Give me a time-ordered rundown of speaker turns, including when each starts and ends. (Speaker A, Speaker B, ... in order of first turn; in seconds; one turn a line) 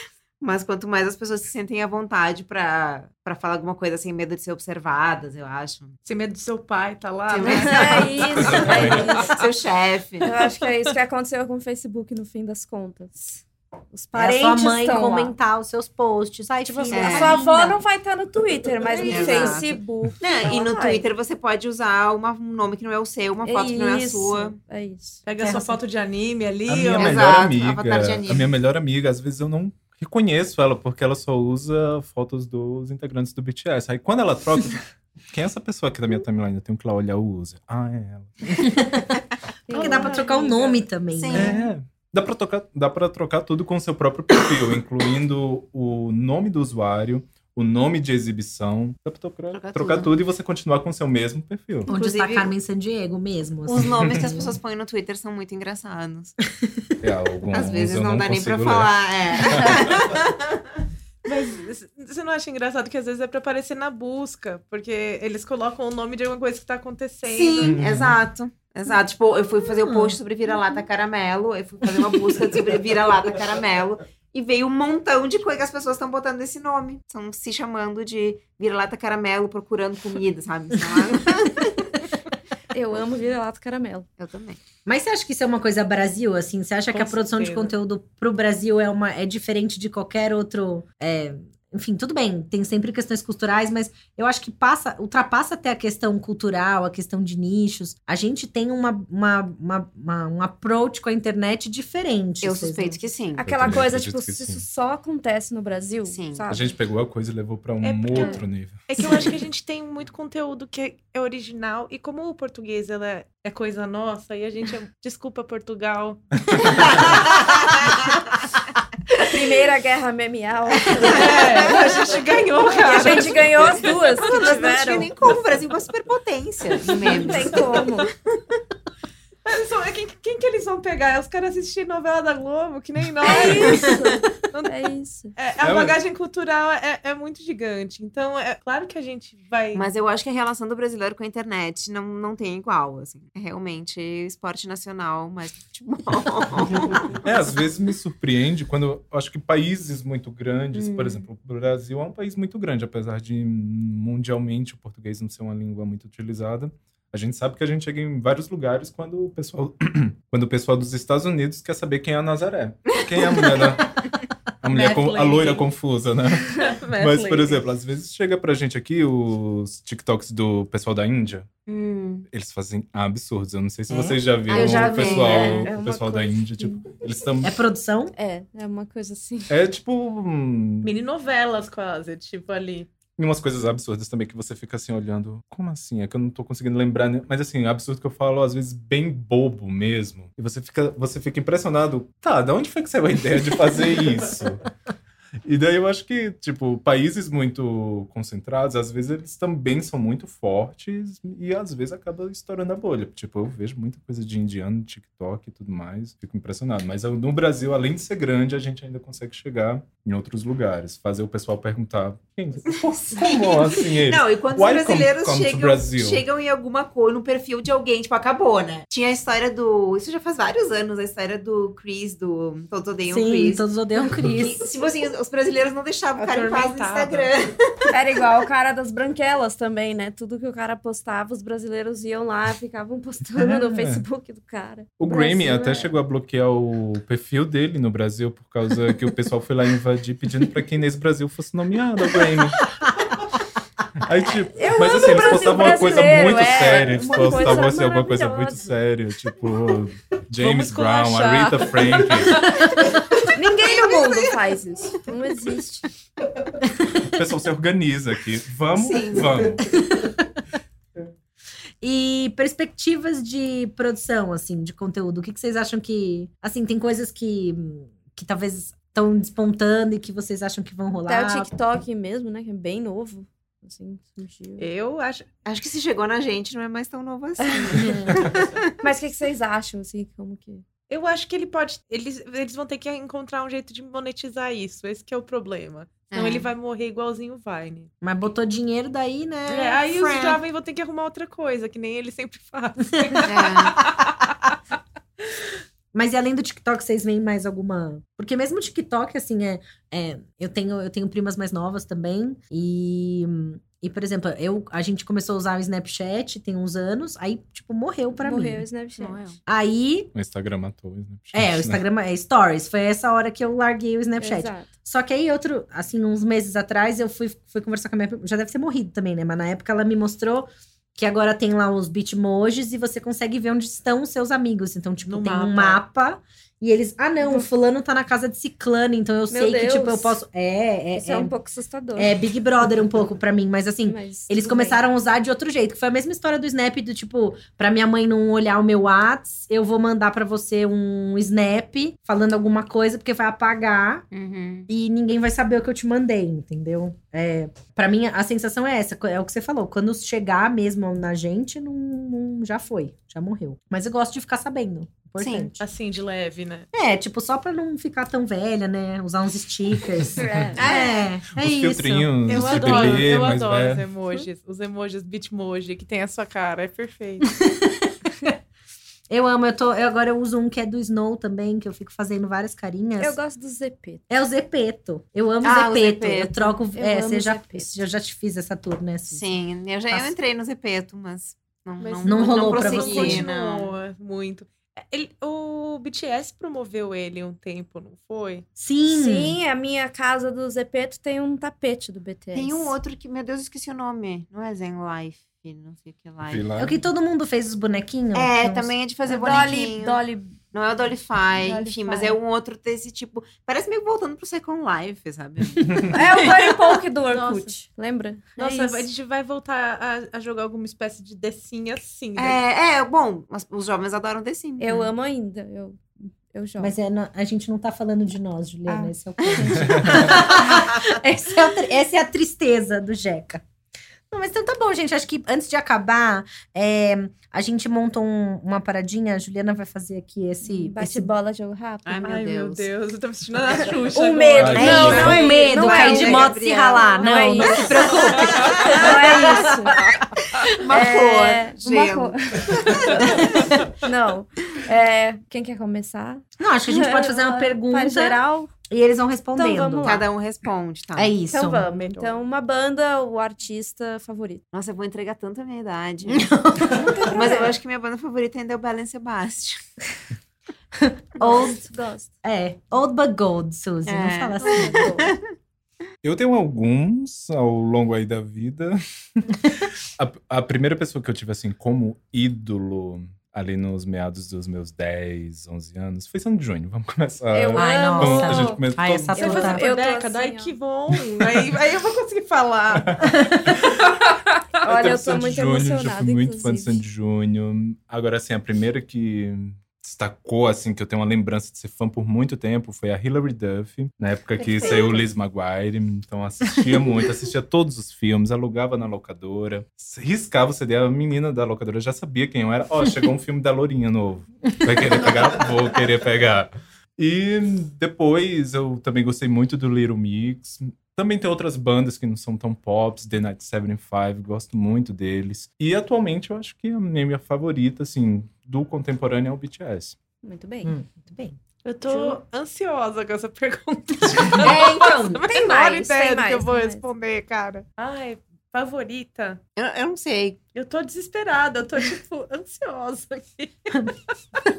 Speaker A: 0.4-6.0
Speaker B: 6.0-9.4
Speaker A: 7.3-10.3
Speaker C: 7.4-9.3
Speaker D: 8.3-9.1
Speaker C: 10.2-15.3
Speaker E: 14.1-17.8
Speaker C: 16.6-21.0
Speaker A: 16.9-17.4
Speaker E: 18.9-19.7
Speaker A: 18.9-24.6
Speaker C: 23.4-25.2
Speaker B: 25.2-27.3
Speaker E: 25.4-25.8
Speaker D: 26.7-39.1
Speaker A: 27.0-28.5
Speaker E: 38.6-39.2
Speaker C: 39.7-40.5
Speaker B: 39.7-40.8
Speaker E: 39.7-41.6
Speaker A: 41.1-41.6
Speaker D: 41.3-51.9
Speaker A: 49.5-50.1
Speaker E: 51.9-54.6
Speaker A: 51.9-52.5
Speaker A: 53.7-56.3
Speaker D: 53.8-54.3
Speaker D: 57.0-60.1
Speaker A: 57.5-60.8
Speaker B: 61.2-67.8
Speaker A: 67.2-82.0
Speaker D: 67.6-68.2
Speaker E: 69.6-70.2
Speaker C: 82.7-84.1
Speaker A: 84.2-84.6
Speaker E: 84.8-103.0
Speaker B: 86.9-87.7
Speaker A: 102.4-103.8
Speaker C: 103.3-106.7
Speaker D: 103.4-104.6
Speaker A: 106.0-106.5
Speaker D: 106.5-109.3
Speaker B: 107.8-117.2
Speaker A: 108.1-108.4
Speaker D: 116.5-117.2
Speaker A: 116.7-117.9
Speaker C: 119.2-121.9
Speaker B: 121.0-123.9
Speaker A: 121.3-121.7
Speaker C: 122.7-125.1
Speaker A: 122.8-123.2
Speaker A: 124.2-127.7
Speaker B: 126.8-128.1
Speaker C: 126.9-128.1
Speaker B: 129.4-134.0
Speaker C: 133.2-135.3
Speaker A: 133.3-134.0
Speaker B: 135.3-139.8
Speaker D: 135.6-136.0
Speaker A: 139.7-147.3
Speaker D: 147.2-164.1
Speaker A: 150.7-151.2
Speaker A: 163.1-163.8
Speaker D: 164.6-171.5
Speaker B: 164.7-165.7
Speaker B: 166.5-167.6
Speaker A: 171.7-172.3
Speaker D: 172.3-177.5
Speaker A: 173.9-175.7
Speaker C: 174.5-176.9
Speaker E: 177.4-178.1
Speaker C: 178.1-179.5
Speaker D: 179.5-180.9
Speaker B: 180.8-182.9
Speaker D: 183.2-194.7
Speaker D: 195.4-216.2
Speaker A: 212.7-223.6
Speaker E: 223.1-224.7
Speaker A: 224.2-227.9
Speaker B: 226.2-227.3
Speaker C: 227.9-235.9
Speaker D: 233.3-234.0
Speaker D: 235.0-242.7
Speaker D: 244.0-252.5
Speaker C: 244.5-248.7
Speaker C: 250.4-252.5
Speaker B: 252.4-252.7
Speaker C: 253.2-255.9
Speaker A: 253.6-254.4
Speaker E: 256.6-257.0
Speaker D: 257.1-259.6
Speaker A: 258.7-259.6
Speaker E: 259.6-260.2
Speaker E: 261.8-271.5
Speaker C: 271.1-274.7
Speaker B: 274.6-275.3
Speaker A: 275.4-278.6
Speaker C: 277.4-277.9
Speaker E: 277.7-278.3
Speaker C: 278.8-280.6
Speaker B: 280.9-287.9
Speaker A: 286.1-286.5
Speaker E: 288.0-290.4
Speaker B: 289.5-294.5
Speaker A: 293.2-293.8
Speaker E: 295.9-308.6
Speaker C: 308.1-309.2
Speaker A: 309.0-309.4
Speaker E: 309.4-310.1
Speaker D: 310.1-311.8
Speaker E: 311.3-331.3
Speaker C: 314.2-314.7
Speaker B: 325.1-325.8
Speaker C: 327.2-327.5
Speaker C: 329.3-330.2
Speaker C: 330.9-332.1
Speaker E: 331.9-344.0
Speaker C: 333.9-334.8
Speaker A: 344.1-344.7
Speaker E: 344.7-355.6
Speaker A: 355.2-355.5
Speaker B: 355.6-356.7
Speaker E: 356.7-363.1
Speaker C: 360.1-361.1
Speaker A: 360.6-360.9
Speaker D: 361.3-363.8
Speaker B: 362.2-367.3
Speaker E: 367.3-368.4
Speaker E: 369.1-373.2
Speaker C: 373.0-374.0
Speaker E: 374.1-379.3
Speaker A: 375.4-376.5
Speaker C: 376.7-377.8
Speaker A: 379.1-383.7
Speaker B: 381.8-388.5
Speaker E: 382.0-383.3
Speaker E: 388.6-389.4
Speaker C: 388.9-392.7
Speaker A: 392.3-396.4
Speaker D: 396.3-396.8
Speaker E: 396.6-398.7
Speaker A: 398.1-400.0
Speaker C: 399.1-400.4
Speaker A: 400.5-406.0
Speaker C: 401.4-402.2
Speaker C: 405.9-408.9
Speaker E: 407.1-407.5
Speaker B: 408.4-412.4
Speaker A: 412.1-414.9
Speaker C: 414.6-416.7
Speaker E: 416.6-423.4
Speaker A: 419.2-420.9
Speaker D: 419.6-420.0
Speaker E: 424.1-431.1
Speaker C: 430.4-432.0
Speaker A: 431.9-432.7
Speaker B: 432.0-435.0
Speaker C: 433.6-439.9
Speaker D: 434.4-435.2
Speaker E: 434.5-439.9
Speaker A: 434.6-437.6
Speaker A: 438.4-439.6
Speaker A: 440.2-443.4
Speaker C: 440.6-448.5
Speaker E: 443.0-443.6
Speaker E: 446.4-450.0
Speaker C: 449.4-450.0
Speaker A: 449.8-451.1
Speaker E: 450.9-451.7
Speaker C: 451.3-454.4
Speaker A: 454.5-456.3
Speaker E: 456.1-457.3
Speaker C: 456.7-457.5
Speaker A: 457.1-459.7
Speaker E: 460.8-461.6
Speaker C: 461.2-462.1
Speaker E: 462.2-464.9
Speaker A: 463.9-465.3
Speaker C: 464.4-465.1
Speaker D: 466.0-479.2
Speaker C: 477.3-480.5
Speaker E: 477.5-479.7
Speaker B: 479.2-483.3
Speaker D: 482.8-483.9
Speaker E: 483.2-483.5
Speaker B: 483.8-484.1
Speaker C: 484.6-486.8
Speaker D: 484.6-520.0
Speaker A: 494.4-495.1
Speaker C: 520.2-520.7
Speaker E: 520.6-521.4
Speaker B: 521.6-529.4
Speaker C: 521.9-522.2
Speaker A: 524.4-525.3
Speaker C: 525.2-526.9
Speaker A: 529.5-530.4
Speaker B: 530.5-534.1